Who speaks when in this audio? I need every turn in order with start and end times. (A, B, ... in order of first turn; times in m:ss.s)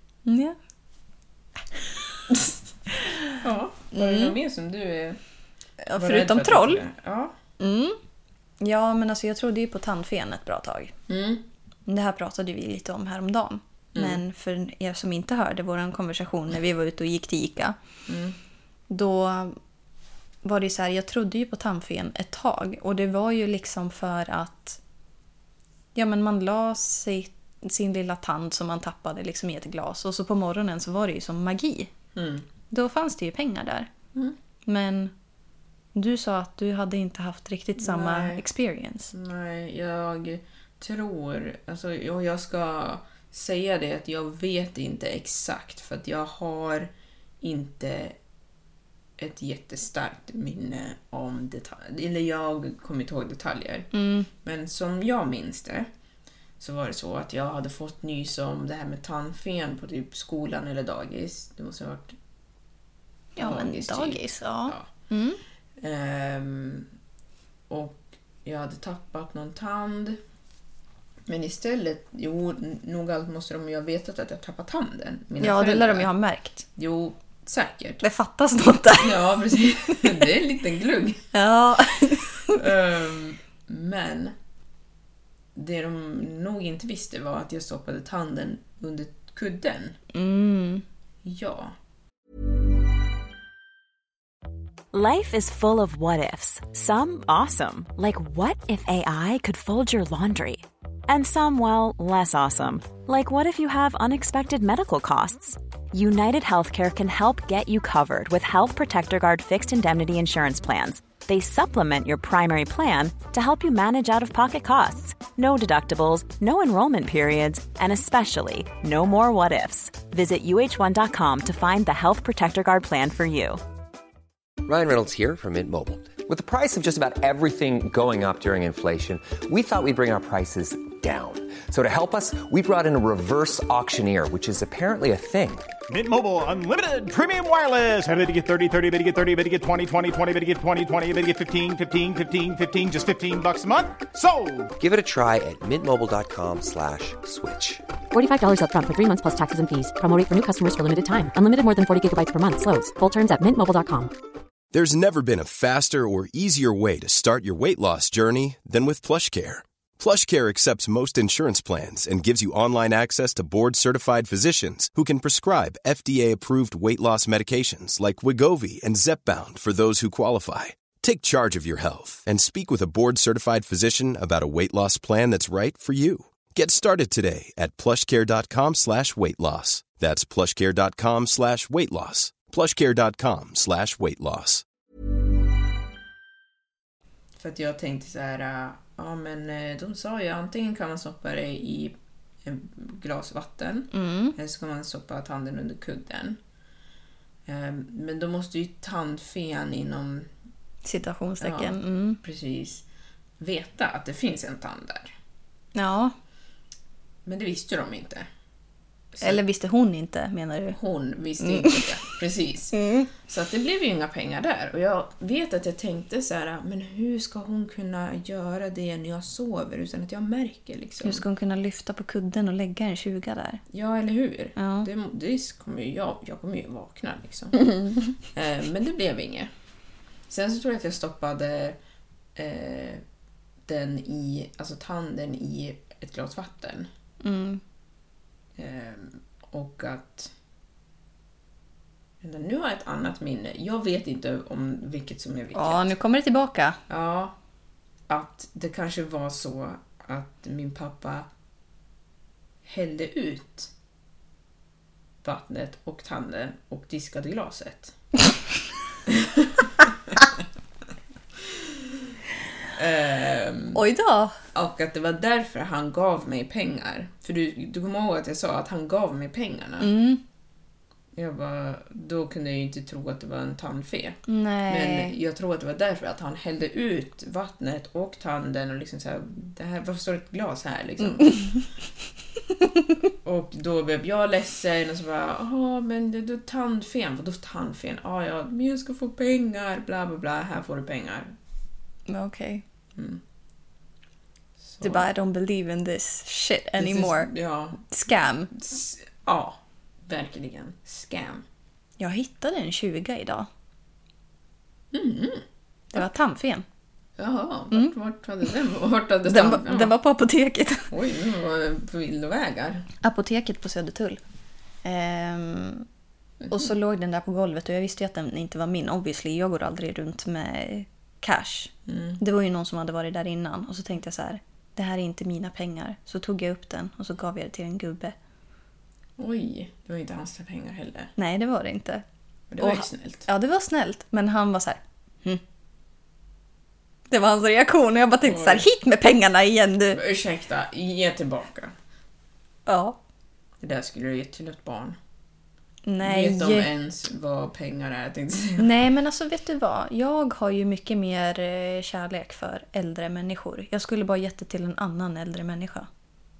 0:00.2-0:00.6 A
0:03.0-0:03.4 A
0:03.4-0:05.2 B
0:03.9-0:04.4 A
0:05.8-0:07.4 B
0:05.9-0:06.8 A
0:07.6-0:08.0 A
0:08.6-0:10.9 A
0:11.1-0:11.4 B
0:11.9-0:17.8 A
0:13.9-0:14.2 B
0:18.1-0:18.4 B
0:18.9-0:19.6 A
0:20.4-0:24.8 A
0:25.9-0:31.9 A
0:32.1-0:32.5 B
0:32.7-0:33.9 A
0:34.6-0:35.1 A
0:35.9-0:39.1 A
0:37.8-0:38.5 B
0:39.1-0:48.2 B
0:49.2-0:53.9 B
0:53.9-0:54.3 A
0:54.4-0:55.9 B
0:56.6-1:02.1 B
1:03.4-1:05.4 A
1:03.4-1:04.9 B
1:05.8-1:06.9 B
1:07.7-1:10.2 B
1:11.2-1:16.1 B
1:15.4-1:16.6 A
1:16.8-1:18.0 B
1:18.0-1:19.4 A
1:19.0-1:21.3 B
1:21.3-1:22.6 A
1:22.5-1:24.3 B
1:25.5-1:30.0 B
1:30.1-1:30.8 A
1:31.2-1:31.8 B
1:34.9-2:03.6 C
2:04.6-2:15.8 D
2:15.9-2:24.7 E
2:24.8-2:27.8 D
2:28.1-2:34.1 F
2:34.7-3:04.6 G
3:07.4-3:16.4 B
3:13.9-3:14.4 A
3:17.5-3:20.3 B
3:20.8-3:22.2 A
3:21.4-3:22.8 B
3:23.4-3:25.1 B
3:25.8-3:26.1 A
3:27.2-3:28.3 B
3:29.1-3:29.4 B
3:29.2-3:30.8 A
3:30.7-3:41.2 B
3:31.4-3:31.9 A
3:32.7-3:33.1 A
3:41.0-3:43.6 A
3:43.7-3:49.5 B
3:44.6-3:44.9 A
3:50.3-3:51.8 B
3:52.4-3:53.0 B
3:53.6-3:56.9 B
3:57.2-3:57.6 A
3:58.6-4:00.3 B
4:02.2-4:05.9 B
4:05.5-4:06.8 A
4:06.9-4:07.4 B
4:08.1-4:11.3 B
4:12.6-4:13.7 B
4:15.2-4:17.9 B
4:19.0-4:20.2 B
4:22.7-4:23.8 B
4:23.8-4:24.4 A
4:24.5-4:29.9 B
4:29.8-4:30.2 A
4:31.1-4:41.6 B
4:34.3-4:35.2 A
4:43.2-4:51.3 B
4:52.1-4:52.6 A
4:52.9-4:53.2 B
4:54.6-4:55.1 B
4:54.8-4:58.5 A
4:56.8-4:57.8 B
4:58.5-5:01.4 B
5:02.0-5:03.5 A
5:04.9-5:05.4 B
5:05.9-5:06.6 A
5:07.2-5:10.0 B
5:09.2-5:10.9 A
5:10.9-5:12.9 B
5:13.0-5:14.2 A
5:14.8-5:15.9 A
5:16.4-5:16.7 B
5:16.5-5:28.1 A
5:21.9-5:22.2 B
5:29.2-5:31.1 B
5:31.2-5:32.0 A
5:32.5-5:33.2 B
5:32.6-5:35.4 A
5:37.1-5:40.0 A
5:38.2-5:38.6 B
5:39.9-5:41.7 B
5:42.7-5:43.0 A
5:43.6-5:45.0 B
5:45.9-5:46.7 A
5:46.0-5:48.7 B
5:48.6-5:55.9 A